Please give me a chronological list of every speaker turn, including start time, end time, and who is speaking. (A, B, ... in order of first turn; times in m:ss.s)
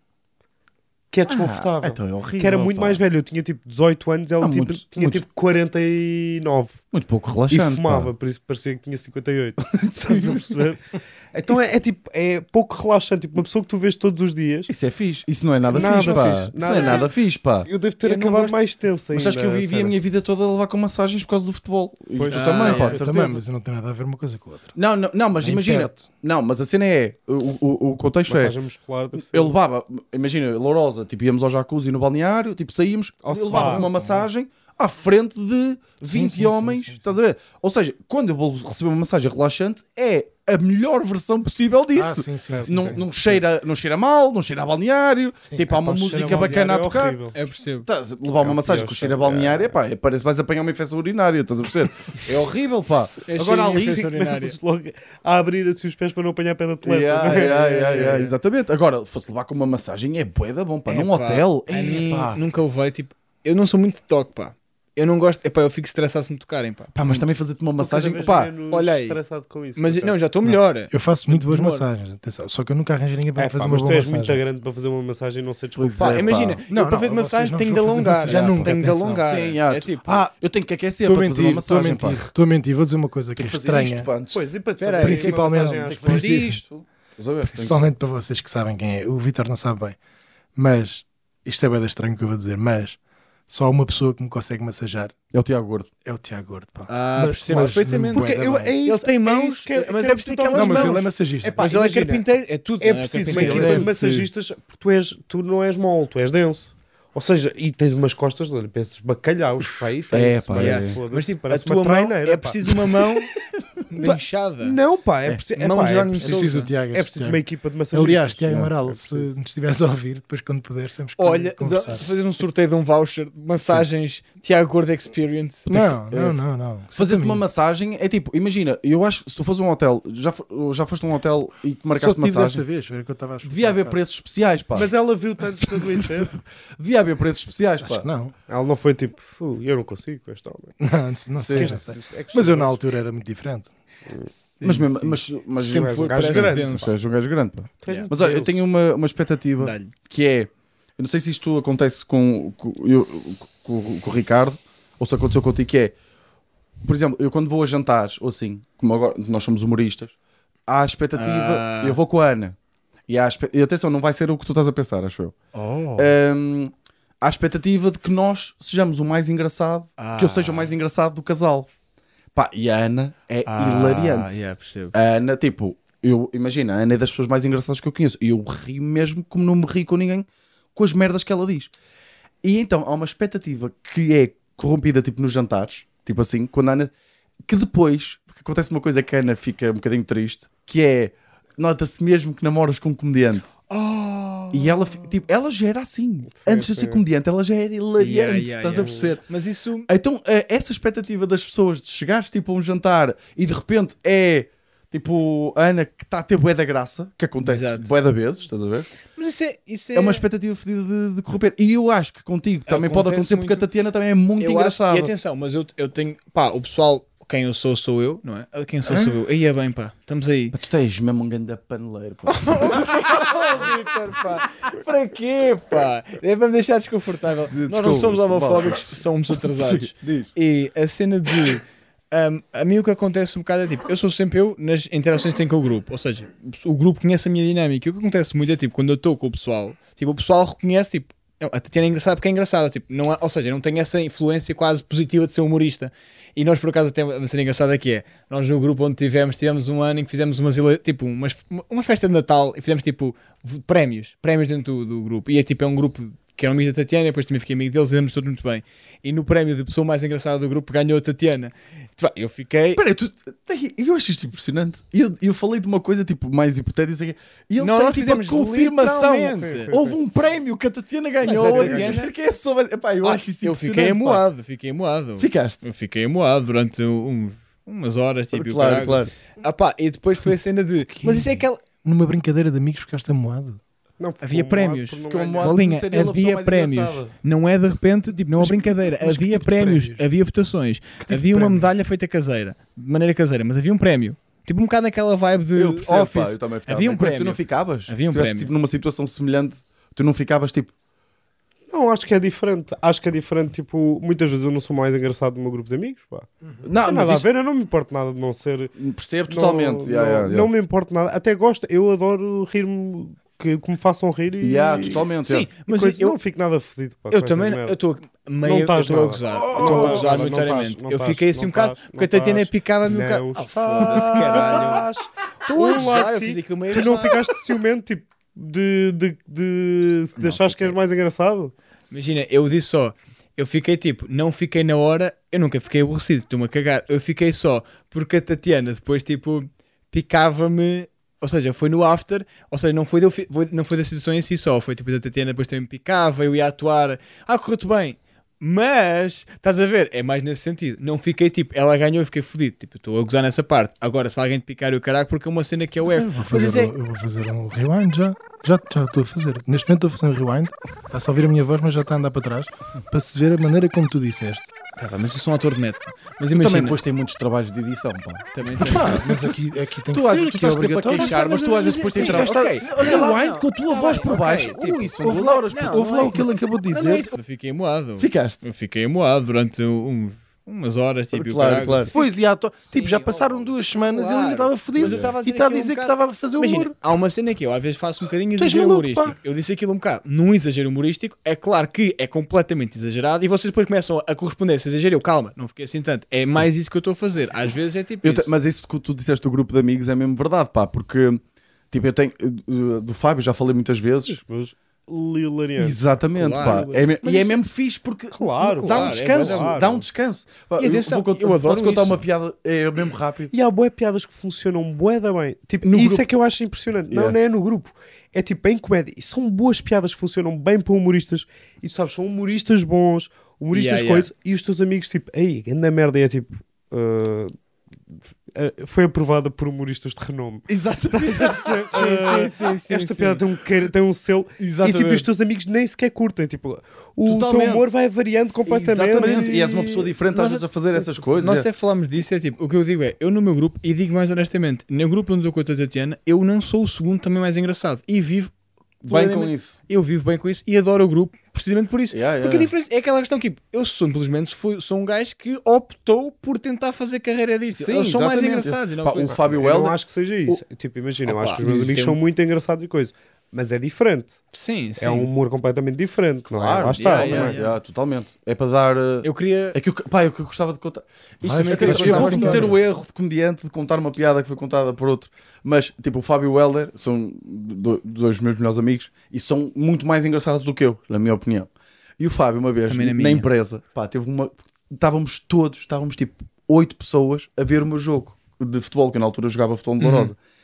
0:01.1-0:06.8 A
0:01.3-0:03.0 B
0:04.4-0:05.2 B
0:06.9-0:08.1 B
0:07.5-0:14.7 A
0:09.7-0:10.4 B
0:14.7-0:17.7 B
0:15.7-0:17.1 A
0:15.8-0:16.4 C
0:17.6-0:20.0 A
0:18.0-0:18.6 D
0:19.1-0:23.4 B
0:22.2-0:22.8 A
0:22.3-0:23.0 D
0:22.6-0:24.8 C
0:24.8-0:28.6 B
0:25.4-0:26.0 C
0:28.3-0:29.6 A
0:29.2-0:47.2 B
0:33.2-0:33.9 A
0:33.5-0:34.3 C
0:36.0-0:37.2 C
0:42.0-0:43.0 C
0:42.5-0:43.1 A
0:45.7-0:47.4 A
0:47.3-0:47.9 D
0:47.9-0:54.0 B
0:48.4-0:49.7 A
0:53.3-0:54.6 D
0:53.7-0:58.4 A
0:56.8-1:02.4 B
1:00.9-1:07.3 D
1:07.0-1:08.5 B
1:07.8-1:10.2 A
1:08.7-1:09.2 D
1:09.8-1:11.8 D
1:10.4-1:14.4 C
1:13.4-1:16.3 A
1:15.8-1:16.6 B
1:16.0-1:20.2 D
1:16.7-1:19.3 C
1:18.3-1:22.2 B
1:20.0-1:20.3 C
1:21.0-1:24.1 C
1:23.4-1:24.4 B
1:24.3-1:26.5 A
1:24.8-1:25.5 D
1:25.0-1:26.6 C
1:25.8-1:27.8 B
1:27.4-1:30.0 C
1:30.6-1:33.0 C
1:33.5-1:35.1 C
1:35.3-1:35.9 B
1:36.0-1:38.8 C
1:36.9-1:41.1 D
1:38.1-1:42.3 A
1:40.5-1:41.7 C
1:41.6-1:43.9 D
1:42.8-1:52.7 A
1:43.3-1:44.3 B
1:50.1-1:51.0 B
1:50.6-1:53.3 D
1:53.9-1:54.8 D
1:54.0-1:59.3 A
1:55.5-1:56.7 D
1:56.2-2:02.0 C
2:01.2-2:05.9 D
2:05.7-2:07.4 C
2:06.1-2:06.4 B
2:06.9-2:12.6 B
2:11.9-2:14.0 C
2:13.4-2:14.9 B
2:14.8-2:16.3 A
2:15.6-2:18.1 B
2:17.8-2:18.3 C
2:18.5-2:20.7 A
2:20.8-2:23.7 C
2:21.4-2:21.7 B
2:21.5-2:22.8 A
2:24.6-2:26.9 D
2:24.6-2:35.9 B
2:25.7-2:27.0 A
2:27.8-2:28.6 A
2:29.6-2:29.9 D
2:36.8-2:40.1 B
2:40.7-2:42.6 B
2:41.1-2:42.0 D
2:43.1-2:45.3 B
2:45.5-2:46.1 D
2:46.0-2:51.7 B
2:50.0-2:50.7 D
2:52.3-2:54.4 B
2:53.5-2:54.9 D
2:54.9-3:01.7 B
3:02.4-3:06.9 B
3:07.5-3:13.5 B
3:13.7-3:15.0 D
3:14.5-3:19.2 B
3:16.3-3:17.0 A
3:18.0-3:19.9 D
3:18.8-3:19.1 A
3:19.9-3:28.9 B
3:27.4-3:27.9 D
3:29.2-3:30.2 D
3:30.0-3:35.1 B
3:32.7-3:33.7 D
3:34.4-3:40.6 D
3:40.5-3:43.1 B
3:42.3-4:22.8 D
3:47.5-3:48.9 B
3:49.4-3:50.3 B
4:22.8-4:34.3 B
4:27.6-4:29.7 D
4:29.4-4:30.0 A
4:31.2-4:32.1 D
4:31.2-4:32.0 A
4:33.0-4:41.6 D
4:35.2-4:35.6 B
4:38.3-4:39.1 B
4:41.0-4:43.6 C
4:44.0-4:45.6 A
4:44.2-4:58.5 D
4:45.1-4:47.1 B
4:48.4-4:50.0 C
4:51.0-4:51.7 C
4:55.6-5:00.7 B
5:01.7-5:06.3 A
5:06.6-5:07.3 B
5:06.8-5:08.7 A
5:08.8-5:10.5 B
5:09.3-5:15.1 A
5:14.4-5:15.5 B
5:15.2-5:16.2 D
5:15.7-5:17.8 A
5:17.1-5:24.9 D
5:18.4-5:31.5 A
5:19.6-5:20.0 B
5:25.5-5:27.3 D
5:30.2-5:30.8 D
5:31.9-5:56.7 D
5:56.0-6:04.5 C
6:04.8-6:06.8 D
6:06.3-6:09.3 B
6:08.3-6:09.0 D
6:08.6-6:11.2 C
6:09.9-6:16.2 B
6:10.9-6:22.1 D
6:11.9-6:12.6 C
6:15.7-6:17.1 C
6:18.0-6:18.4 B
6:21.1-6:21.9 B
6:21.9-6:26.7 C
6:22.7-6:38.3 D
6:24.8-6:25.1 B
6:28.4-6:29.2 C
6:38.0-6:44.2 B
6:44.1-6:45.8 A
6:45.6-6:53.3 B
6:46.1-6:47.4 D
6:46.4-6:47.0 A
6:48.1-6:49.8 A
6:48.5-6:49.6 D
6:50.6-6:52.0 D
6:53.3-7:07.3 A
6:55.6-6:56.1 B
6:56.9-6:57.2 B
7:03.5-7:04.1 D
7:08.3-7:19.6 A
7:10.5-7:11.8 B
7:11.7-7:13.2 D
7:14.4-7:15.1 B
7:17.0-7:17.7 B
7:18.5-7:21.5 B
7:18.9-7:28.3 D
7:28.8-7:39.2 D
7:28.9-7:29.5 B
7:31.9-7:32.5 B
7:37.6-7:39.8 B
7:39.1-7:44.2 A
7:41.1-7:42.0 D
7:44.3-7:45.1 D
7:44.8-7:47.4 A
7:46.3-8:10.2 B
7:46.8-7:47.6 D
7:49.0-7:49.6 D
7:51.2-7:52.6 C
7:51.5-7:52.5 D
8:02.7-8:03.3 D
8:09.8-8:10.1 D